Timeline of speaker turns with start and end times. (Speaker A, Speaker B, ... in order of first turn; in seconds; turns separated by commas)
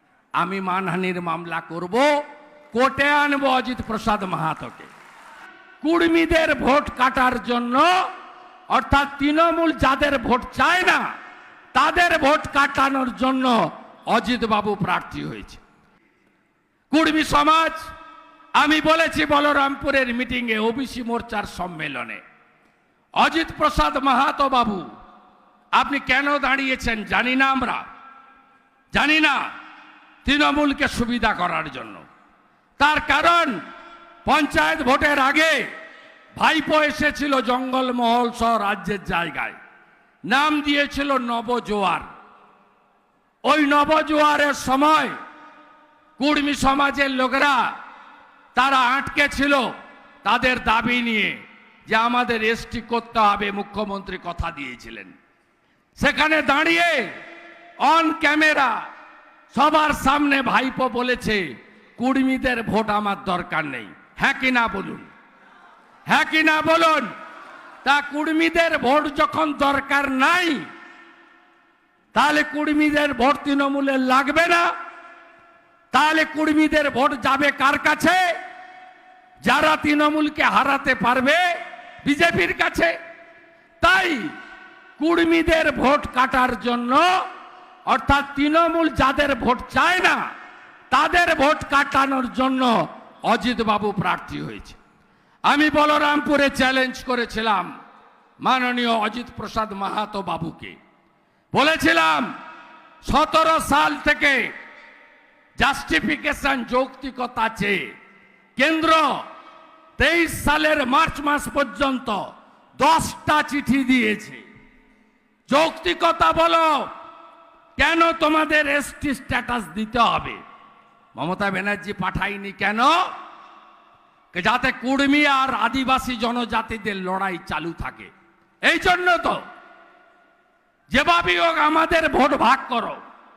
Speaker A: 0.4-2.1, Speaker A: 2.7-4.9, Speaker A: 5.8-7.9, Speaker A: 8.7-11.0, Speaker A: 11.7-15.6, Speaker A: 16.9-17.8, Speaker A: 18.6-22.2, Speaker A: 23.2-24.8, Speaker A: 25.7-27.8, Speaker A: 28.9-29.4, Speaker A: 30.2-32.0, Speaker A: 32.8-33.6, Speaker A: 34.2-35.7, Speaker A: 36.4-39.5, Speaker A: 40.3-42.1, Speaker A: 43.4-45.1, Speaker A: 46.2-47.6, Speaker A: 48.5-49.7, Speaker A: 50.2-55.1, Speaker A: 56.0-57.1, Speaker A: 57.8-58.7, Speaker A: 59.5-65.1, Speaker A: 66.1-67.1, Speaker A: 67.8-70.7, Speaker A: 72.1-74.7, Speaker A: 75.9-78.2, Speaker A: 79.4-81.4, Speaker A: 82.0-82.9, Speaker A: 83.8-84.3, Speaker A: 85.0-87.1, Speaker A: 87.9-90.2, Speaker A: 90.9-94.8, Speaker A: 95.5-97.7, Speaker A: 98.4-100.8, Speaker A: 101.5-102.3, Speaker A: 103.0-104.5, Speaker A: 105.6-107.9, Speaker A: 108.5-109.2, Speaker A: 110.0-114.4, Speaker A: 115.5-116.9, Speaker A: 117.8-120.4, Speaker A: 121.1-123.0, Speaker A: 124.3-128.1, Speaker A: 128.6-129.4, Speaker A: 130.9-133.0